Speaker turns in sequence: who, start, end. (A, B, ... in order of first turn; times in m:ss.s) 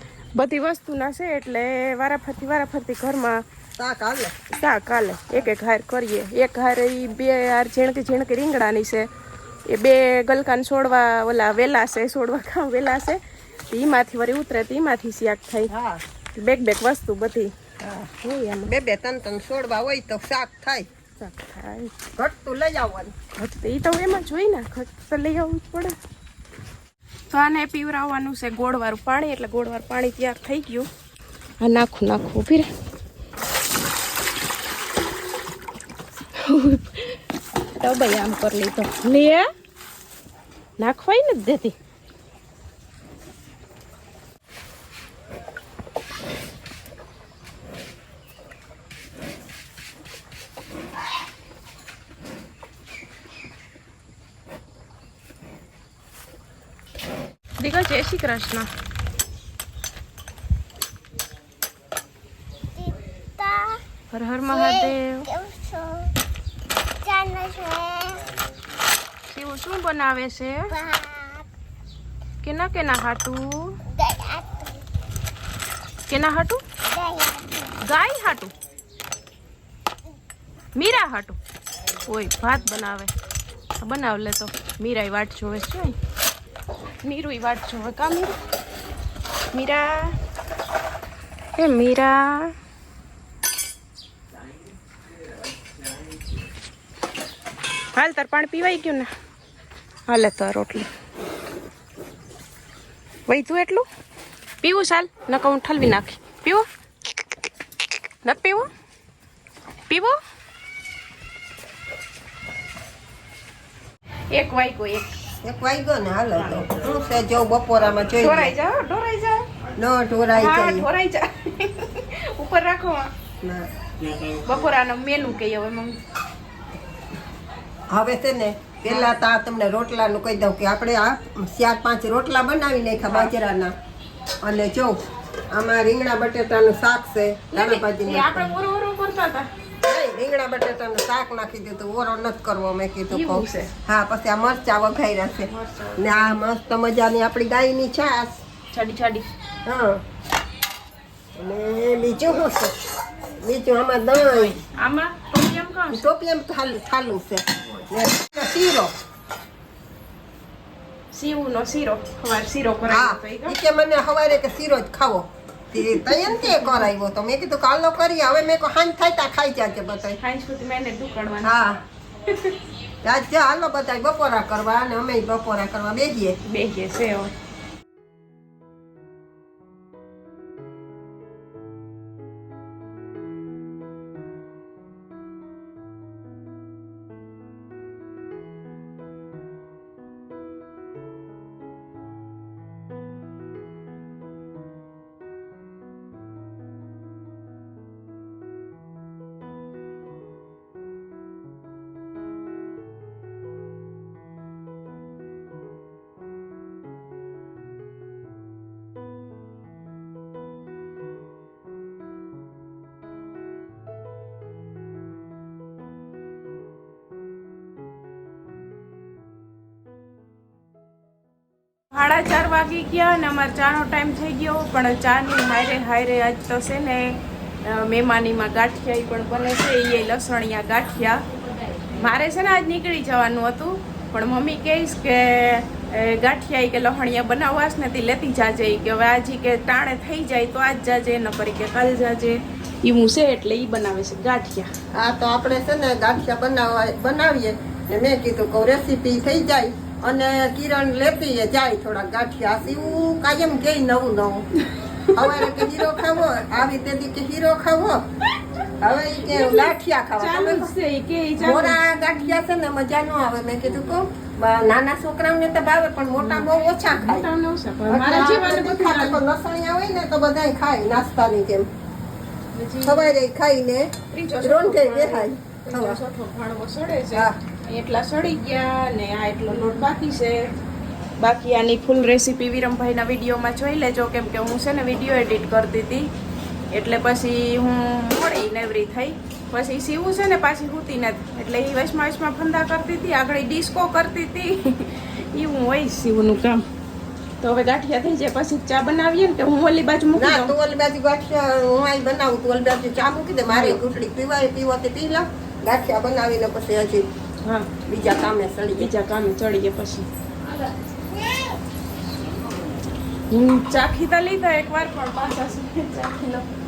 0:00.4-0:03.4 A
0:03.8-0:04.3 B
0:04.5-0:09.1 A
0:09.7-0:15.7 A
0:15.7-0:16.0 B
0:16.4-0:17.5 A
0:17.8-0:18.1 B
0:18.2-0:18.7 A
0:18.7-0:20.9 B
0:21.2-0:21.9 A
0:22.2-0:23.2 B
0:23.4-0:26.0 A
0:27.3-0:30.9 A
0:31.6-0:32.7 A
0:36.4-0:37.2 A
0:37.8-0:39.5 A
0:40.8-0:41.8 A
0:57.6-0:58.7 A
1:02.8-1:03.8 C
1:04.1-1:05.3 A
1:04.7-1:06.1 C
1:07.0-1:08.3 C
1:09.3-1:10.8 A
1:10.8-1:11.4 C
1:12.4-1:13.8 A
1:13.9-1:14.6 C
1:16.1-1:16.6 A
1:16.9-1:17.7 C
1:17.8-1:18.5 A
1:20.8-1:21.4 A
1:22.0-1:23.1 A
1:23.8-1:26.0 A
1:27.0-1:28.4 A
1:29.5-1:30.2 A
1:31.6-1:32.6 A
1:38.0-1:39.1 A
1:40.1-1:40.9 A
1:43.3-1:43.8 A
1:44.6-1:46.7 A
1:48.2-1:48.7 A
1:49.9-1:50.2 A
1:54.3-1:55.2 A
1:55.4-1:58.5 B
1:58.2-1:59.4 A
1:59.8-2:00.9 B
2:00.4-2:03.1 A
2:03.4-2:03.7 B
2:04.4-2:06.0 A
2:07.9-2:13.7 B
2:13.0-2:13.3 A
2:14.4-2:15.0 B
2:15.5-2:18.6 B
2:17.5-2:19.5 A
2:19.8-2:28.4 B
2:23.1-2:23.7 A
2:25.5-2:26.4 A
2:28.7-2:29.3 A
2:29.6-2:30.0 B
2:31.4-2:34.6 B
2:34.3-2:36.1 A
2:35.9-2:38.9 B
2:41.1-2:43.6 A
2:42.9-2:50.2 B
2:45.8-2:46.9 A
2:50.2-2:51.6 A
2:51.4-2:51.8 B
2:52.2-2:52.6 A
2:53.0-2:56.4 B
2:56.5-2:57.3 A
3:41.9-3:51.2 A
3:51.8-4:04.7 A
4:04.9-4:14.5 B
4:14.6-4:16.1 A
4:15.1-4:18.0 B
4:18.8-4:20.7 B
4:19.2-4:22.1 A
4:21.4-4:27.3 B
4:26.2-4:29.2 A
4:27.9-4:31.7 B
4:32.5-4:33.1 A
4:32.8-4:36.0 B
4:34.1-4:40.5 A
4:41.2-4:46.1 A
4:46.7-4:56.7 A
4:57.4-5:00.5 A
5:00.1-5:07.1 B
5:03.5-5:03.8 A
5:07.4-5:07.7 A
5:07.9-5:08.9 B
5:08.8-5:10.1 A
5:13.3-5:16.5 A